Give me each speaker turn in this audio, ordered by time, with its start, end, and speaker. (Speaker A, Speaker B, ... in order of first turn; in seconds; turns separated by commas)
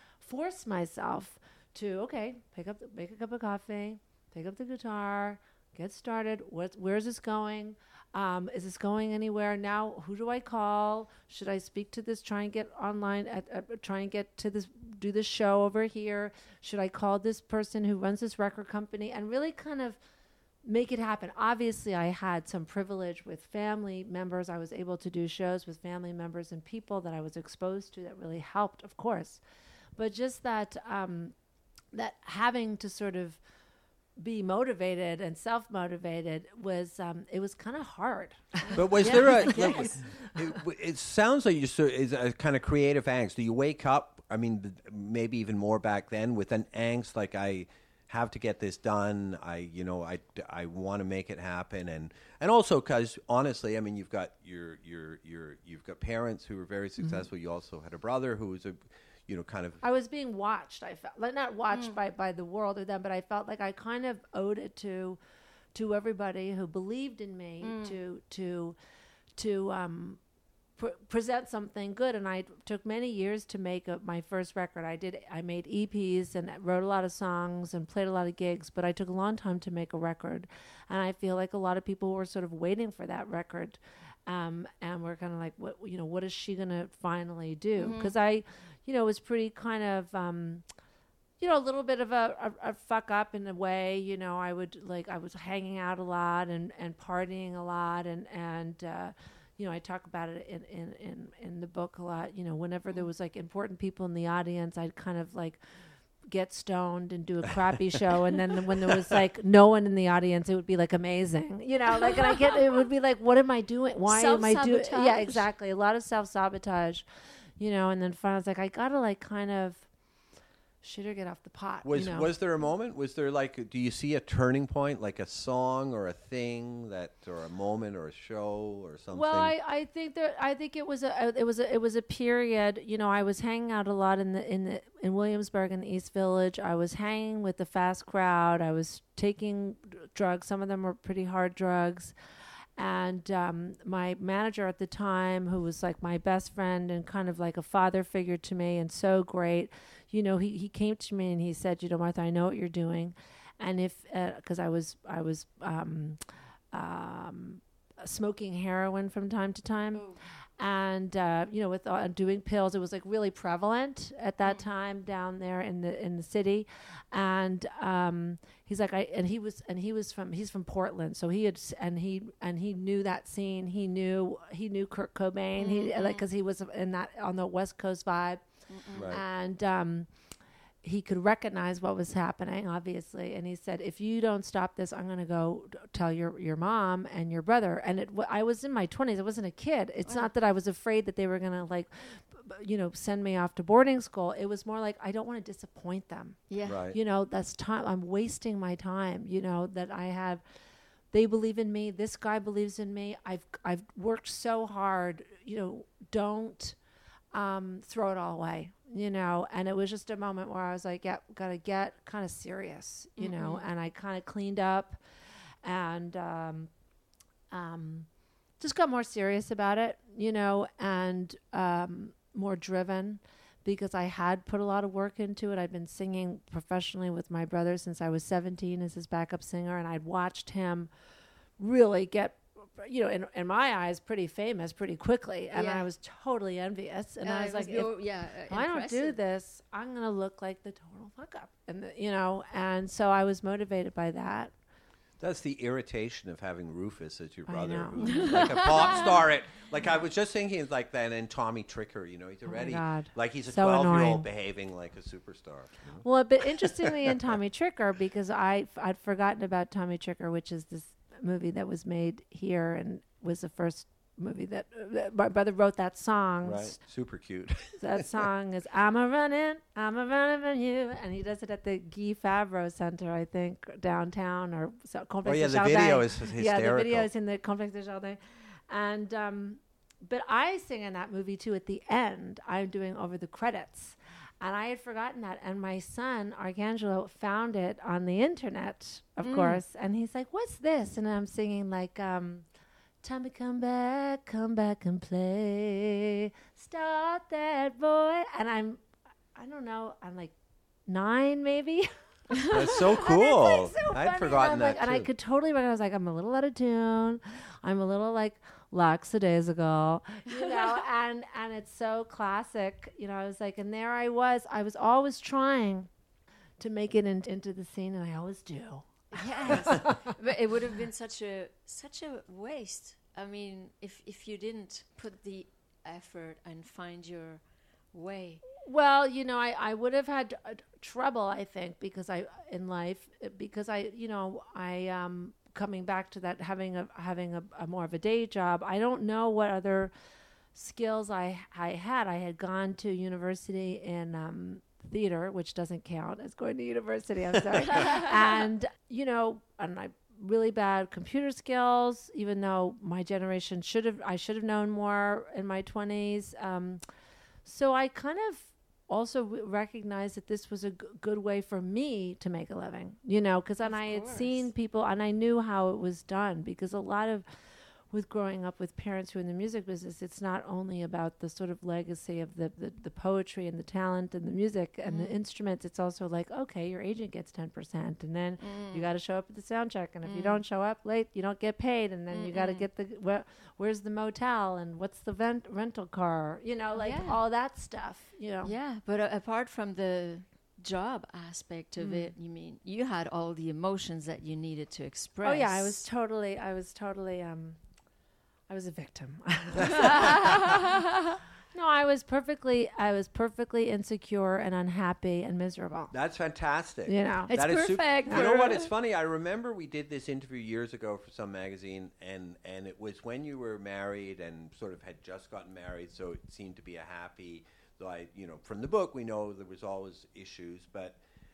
Speaker A: 0.2-20.0, Speaker A: 20.6-29.4, Speaker A: 30.0-31.4, Speaker A: 31.9-33.4, Speaker A: 34.2-40.6, Speaker B: 38.6-40.0, Speaker C: 38.8-59.8, Speaker A: 59.8-65.2, Speaker B: 61.7-62.0, Speaker A: 65.7-68.8, Speaker B: 67.6-68.0, Speaker A: 69.4-70.2, Speaker A: 70.8-90.7, Speaker B: 87.8-88.2, Speaker A: 91.4-105.6, Speaker A: 106.3-117.0, Speaker B: 114.1-115.5, Speaker A: 117.6-119.9, Speaker A: 120.8-122.3, Speaker C: 121.8-129.5, Speaker A: 129.1-142.1, Speaker A: 142.8-156.2, Speaker A: 156.7-160.1, Speaker B: 159.9-160.2, Speaker A: 160.6-178.5, Speaker B: 175.6-176.2, Speaker B: 178.7-179.2, Speaker C: 178.9-179.2, Speaker A: 179.1-180.1, Speaker A: 180.8-196.4, Speaker B: 196.5-196.8, Speaker C: 196.7-197.0, Speaker A: 196.9-200.4, Speaker A: 201.1-206.8, Speaker A: 207.3-215.0, Speaker B: 213.2-213.7, Speaker A: 215.6-216.7, Speaker A: 217.5-218.1, Speaker A: 218.6-230.9, Speaker A: 231.6-237.9, Speaker B: 235.5-235.9, Speaker B: 237.2-239.2, Speaker A: 238.5-244.5, Speaker C: 245.2-256.1, Speaker A: 247.5-249.1, Speaker B: 248.0-249.2, Speaker A: 252.5-254.3, Speaker A: 256.0-266.8, Speaker C: 256.6-257.1, Speaker C: 266.4-268.2, Speaker A: 267.8-278.2, Speaker C: 275.2-277.1, Speaker A: 278.7-292.5, Speaker B: 289.2-289.6, Speaker A: 293.0-298.8, Speaker A: 299.4-300.3, Speaker A: 300.9-315.9, Speaker C: 302.4-305.1, Speaker B: 310.3-310.8, Speaker A: 316.6-320.1, Speaker B: 319.1-327.4, Speaker B: 327.9-328.4, Speaker A: 328.6-339.9, Speaker A: 340.5-356.8, Speaker B: 347.7-348.1, Speaker A: 357.4-367.2, Speaker B: 363.6-364.5, Speaker A: 367.9-388.5, Speaker B: 374.9-375.1, Speaker B: 378.4-378.9, Speaker B: 380.0-380.4, Speaker B: 382.1-382.7, Speaker B: 386.8-387.2, Speaker B: 388.4-395.9, Speaker A: 391.8-392.1, Speaker A: 395.2-397.6, Speaker A: 398.5-400.8, Speaker B: 399.6-401.2, Speaker C: 399.7-400.0, Speaker A: 401.5-405.9, Speaker C: 405.9-421.0, Speaker A: 406.9-407.3, Speaker B: 407.3-408.7